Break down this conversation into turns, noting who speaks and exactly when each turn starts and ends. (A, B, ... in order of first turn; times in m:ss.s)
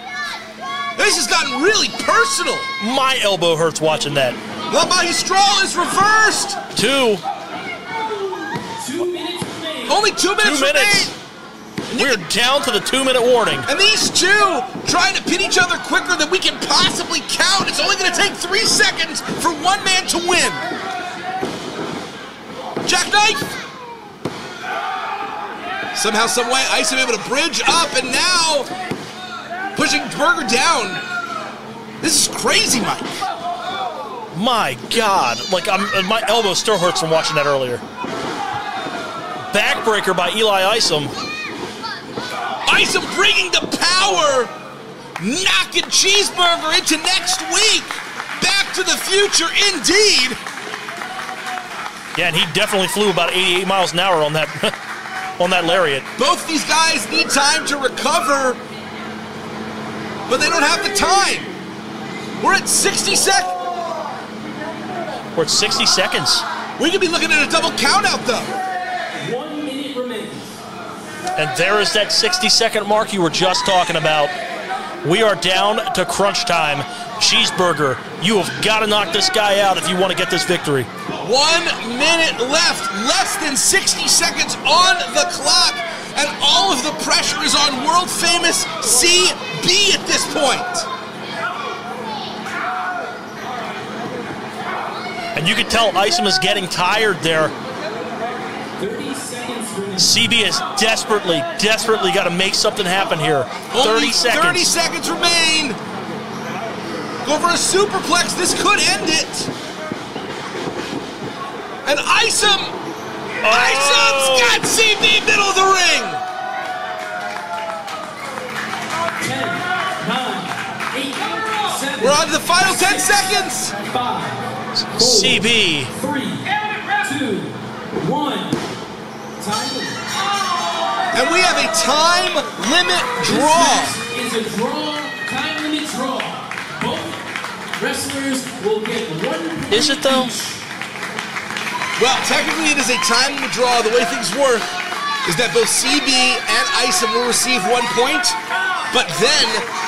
0:01.0-0:02.7 A
0:02.8-0:04.4 B
0:04.7-0:06.6 A
0:06.7-0:07.2 B
0:08.8-0:10.0 C
0:09.9-0:11.1 A
0:10.4-0:11.1 B
0:11.9-0:13.7 B
0:11.9-0:12.2 A
0:13.7-0:20.6 A
0:22.8-0:23.6 A
0:25.9-0:28.7 A
0:29.8-0:31.0 A
0:32.0-0:33.3 A
0:34.3-0:37.8 B
0:39.5-0:41.1 B
0:42.7-0:44.5 A
0:45.2-0:50.4 A
0:52.2-0:54.7 B
0:55.4-0:56.1 B
0:56.2-0:58.6 A
1:00.3-1:01.5 A
1:02.4-1:03.6 A
1:05.4-1:06.4 B
1:06.8-1:08.6 A
1:09.1-1:10.4 C
1:11.4-1:14.3 B
1:15.0-1:20.9 B
1:21.2-1:30.9 A
1:35.4-1:37.5 B
1:38.8-1:40.3 C
1:40.0-1:44.7 B
1:43.7-1:45.8 A
1:47.2-1:49.5 A
1:51.8-1:52.8 A
1:53.4-1:54.6 B
1:53.5-1:56.2 A
1:59.2-2:03.3 C
2:02.0-2:03.7 A
2:03.8-2:06.5 C
2:04.9-2:05.9 B
2:07.0-2:08.6 C
2:09.4-2:10.1 C
2:11.1-2:14.0 A
2:13.2-2:17.2 C
2:17.7-2:20.6 C
2:19.7-2:20.3 B
2:22.0-2:24.7 A
2:25.2-2:28.4 A
2:28.9-2:29.7 A